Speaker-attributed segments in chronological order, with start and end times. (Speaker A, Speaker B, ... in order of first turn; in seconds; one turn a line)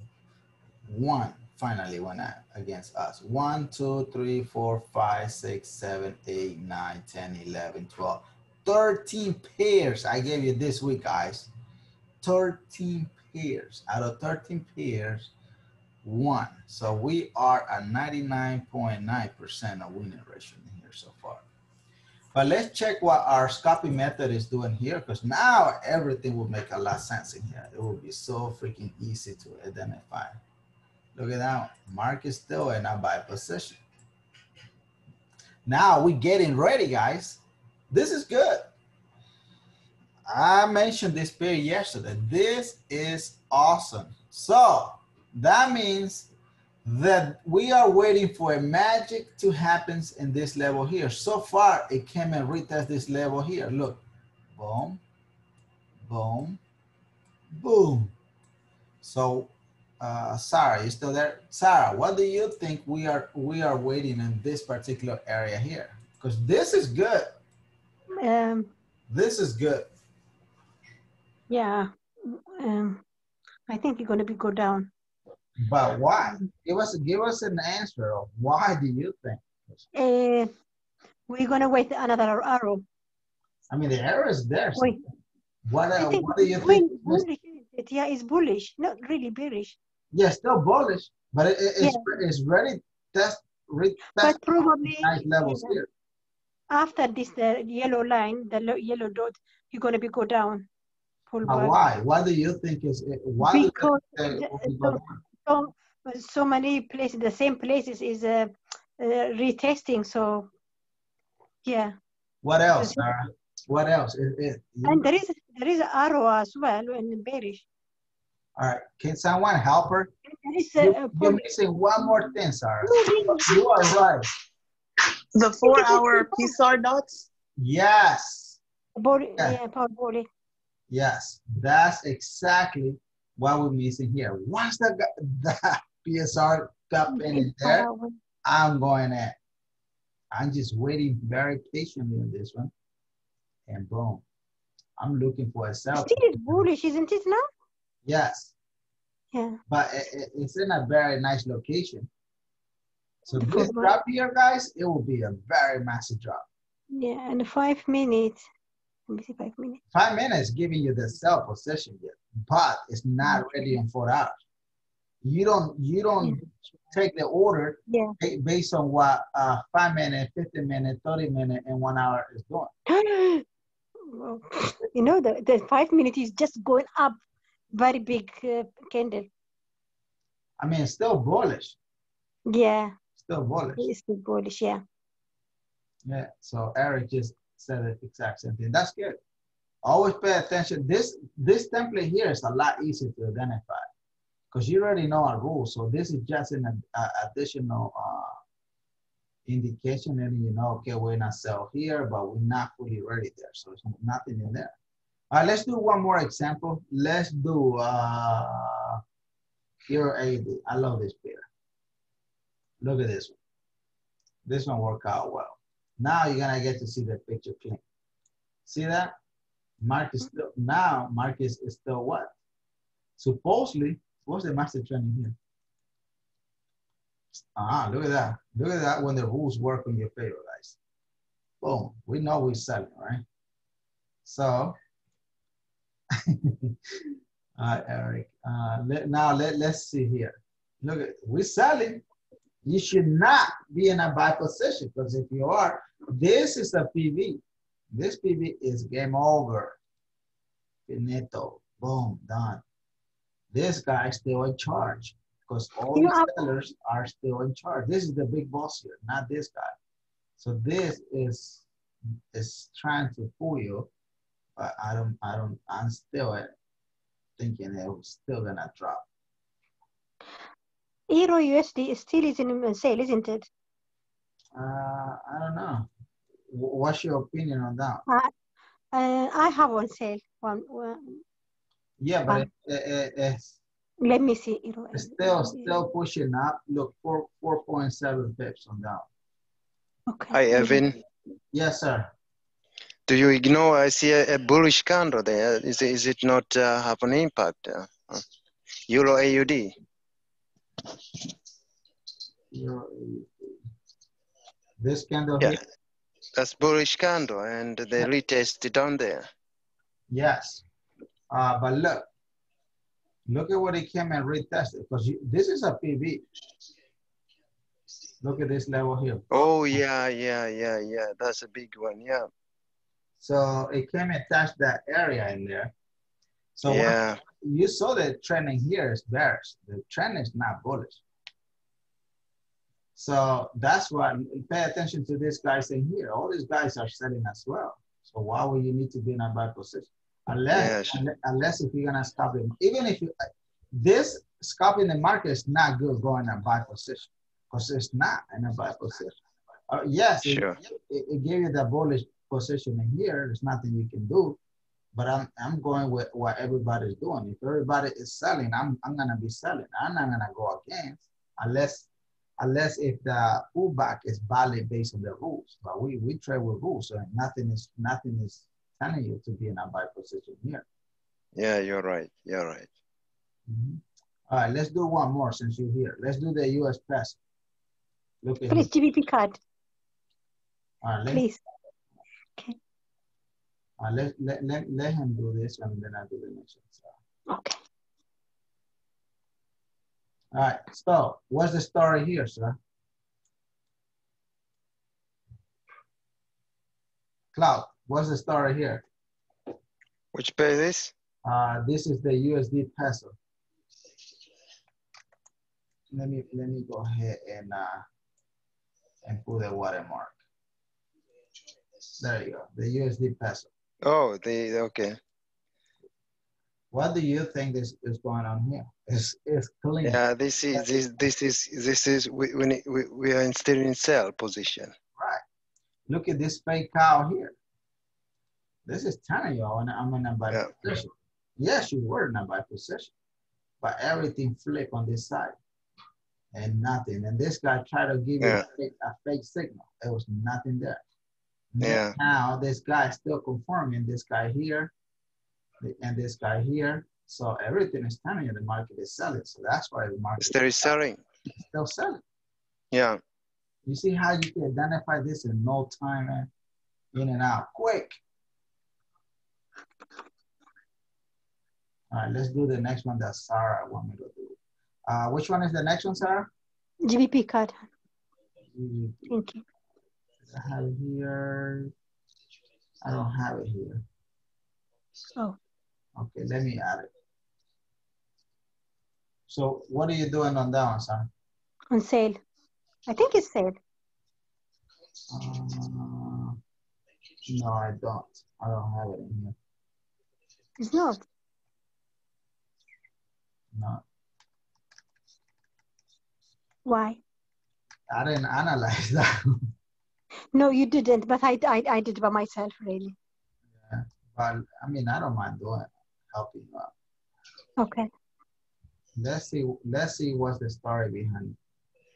Speaker A: 0.8-11.5
Speaker A: 12.2-15.3
Speaker A: 16.0-21.4
Speaker A: 22.3-30.4
Speaker A: 31.1-33.8
Speaker A: 35.6-38.7
Speaker A: 40.3-46.3
Speaker A: 46.8-54.0
Speaker A: 54.5-55.0
Speaker A: 56.0-56.6
Speaker A: 57.5-58.1
Speaker A: 59.0-67.2
Speaker B: 68.2-68.7
Speaker A: 69.1-69.9
Speaker B: 71.5-73.0
Speaker B: 73.7-74.9
Speaker A: 75.6-79.8
Speaker B: 79.9-80.5
Speaker B: 81.3-82.8
Speaker A: 83.7-84.9
Speaker B: 84.8-85.0
Speaker A: 85.7-87.2
Speaker B: 86.0-89.8
Speaker A: 90.1-95.9
Speaker B: 94.2-95.8
Speaker B: 96.7-100.7
Speaker B: 101.3-101.7
Speaker A: 101.4-105.2
Speaker B: 103.4-110.5
Speaker B: 111.6-111.9
Speaker A: 112.4-115.0
Speaker B: 112.7-113.0
Speaker B: 114.8-117.6
Speaker A: 118.6-120.1
Speaker B: 120.3-121.5
Speaker A: 120.8-124.3
Speaker B: 122.0-122.3
Speaker B: 122.8-123.9
Speaker C: 125.3-127.2
Speaker B: 125.6-126.5
Speaker A: 127.6-128.6
Speaker B: 129.0-130.3
Speaker A: 130.9-137.9
Speaker B: 137.1-138.2
Speaker A: 138.4-139.4
Speaker A: 140.3-142.7
Speaker A: 143.7-144.2
Speaker A: 145.0-146.6
Speaker B: 145.9-147.4
Speaker A: 148.0-148.5
Speaker B: 149.3-149.6
Speaker A: 149.7-152.1
Speaker A: 153.2-156.4
Speaker B: 153.4-153.9
Speaker B: 156.9-158.4
Speaker B: 159.1-159.8
Speaker A: 159.9-164.3
Speaker A: 165.2-172.7
Speaker B: 167.9-168.1
Speaker B: 172.9-173.4
Speaker B: 174.1-177.2
Speaker B: 177.7-179.3
Speaker A: 180.6-181.8
Speaker B: 182.5-182.9
Speaker A: 183.2-183.9
Speaker B: 183.8-184.8
Speaker A: 186.0-189.2
Speaker A: 189.8-193.9
Speaker A: 194.5-198.3
Speaker A: 199.4-204.7
Speaker A: 205.3-209.0
Speaker A: 209.9-211.5
Speaker A: 212.8-213.4
Speaker A: 214.4-217.8
Speaker A: 218.7-219.1
Speaker A: 219.8-222.3
Speaker A: 223.2-225.3
Speaker A: 227.5-230.8
Speaker A: 231.6-233.2
Speaker A: 234.2-234.8
Speaker A: 236.2-236.7
Speaker A: 237.6-242.0
Speaker A: 242.6-249.8
Speaker A: 250.9-252.6
Speaker A: 253.5-259.7
Speaker B: 255.9-256.3
Speaker A: 260.4-261.6
Speaker A: 262.3-263.9
Speaker A: 264.6-266.5
Speaker A: 267.4-269.0
Speaker B: 271.1-273.5
Speaker A: 274.5-275.9
Speaker A: 276.5-278.0
Speaker B: 278.9-281.2
Speaker A: 282.0-283.6
Speaker B: 284.0-285.8
Speaker A: 284.9-289.1
Speaker B: 290.1-290.8
Speaker D: 290.3-291.0
Speaker A: 291.5-292.1
Speaker D: 293.1-298.2
Speaker D: 298.9-299.7
Speaker A: 302.5-303.6
Speaker A: 304.8-305.6
Speaker D: 306.4-309.3
Speaker A: 310.1-310.6
Speaker A: 311.3-312.1
Speaker A: 313.3-316.2
Speaker A: 318.2-319.8
Speaker D: 319.3-322.3
Speaker A: 323.2-325.7
Speaker A: 326.6-331.0
Speaker D: 326.6-327.2
Speaker A: 332.9-343.1
Speaker D: 340.5-341.0
Speaker A: 343.7-349.2
Speaker A: 349.7-354.4
Speaker D: 350.2-350.6
Speaker A: 354.9-361.9
Speaker A: 362.4-370.6
Speaker D: 371.4-372.7
Speaker A: 373.5-377.2
Speaker A: 378.2-378.7
Speaker B: 378.5-379.4
Speaker A: 380.8-381.3
Speaker B: 381.1-381.4
Speaker A: 383.8-386.9
Speaker B: 387.3-387.6
Speaker A: 390.3-392.6
Speaker A: 397.3-398.8
Speaker D: 400.1-400.9
Speaker A: 401.2-403.1
Speaker A: 405.9-407.8
Speaker A: 409.0-410.1
Speaker A: 412.0-413.5
Speaker D: 413.8-415.0
Speaker A: 416.7-420.0
Speaker D: 419.8-424.7
Speaker A: 424.9-425.2
Speaker A: 425.9-427.4
Speaker A: 428.6-432.9
Speaker A: 433.6-435.4
Speaker A: 436.3-440.8
Speaker A: 441.5-444.7
Speaker D: 441.6-441.9
Speaker A: 445.6-450.7
Speaker D: 450.2-451.0
Speaker A: 451.3-452.0
Speaker D: 452.7-453.0
Speaker A: 453.6-456.3
Speaker A: 456.9-458.0
Speaker A: 461.9-466.3
Speaker B: 466.8-467.6
Speaker A: 468.5-469.2
Speaker B: 469.1-469.4
Speaker A: 470.2-471.7
Speaker A: 472.8-473.8
Speaker A: 476.0-476.9
Speaker A: 479.3-481.1
Speaker B: 481.7-482.2
Speaker B: 482.9-483.6
Speaker A: 485.1-486.4
Speaker A: 487.2-489.4
Speaker B: 490.6-491.0
Speaker A: 493.5-493.8
Speaker B: 496.6-497.0
Speaker A: 497.9-499.3
Speaker B: 500.3-502.9
Speaker A: 503.6-506.7
Speaker B: 507.6-507.9
Speaker A: 509.0-511.4